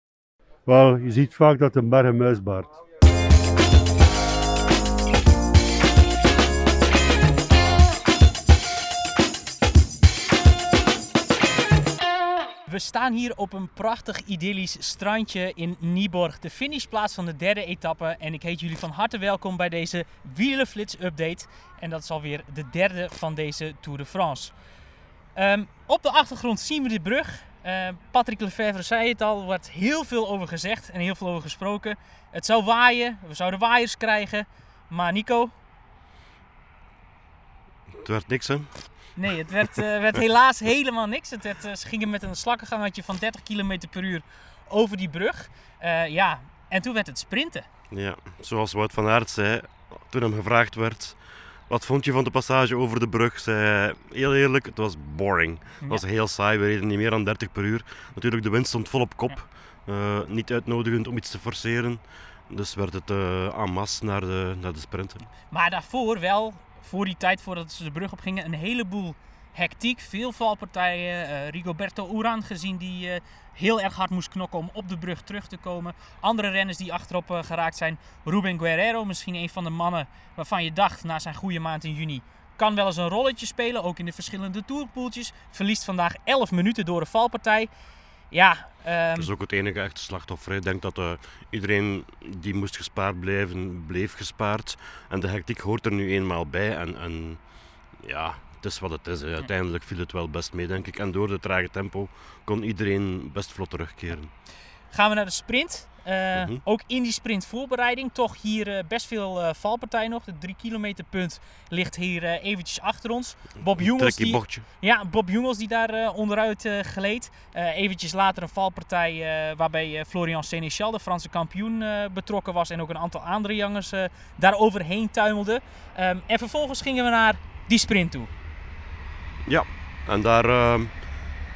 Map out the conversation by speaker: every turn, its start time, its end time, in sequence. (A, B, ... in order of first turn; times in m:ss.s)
0:00.6-0:02.7 A
0:12.6-0:24.5 B
0:25.3-0:35.5 B
0:38.0-0:39.1 C
0:39.2-0:47.7 B
0:47.9-1:05.2 C
1:05.5-1:27.7 B
1:28.3-1:29.3 B
1:29.2-1:37.4 C
1:38.0-1:44.3 C
1:44.9-2:08.3 B
1:46.3-1:46.6 C
1:53.7-1:54.6 C
2:09.4-2:11.0 C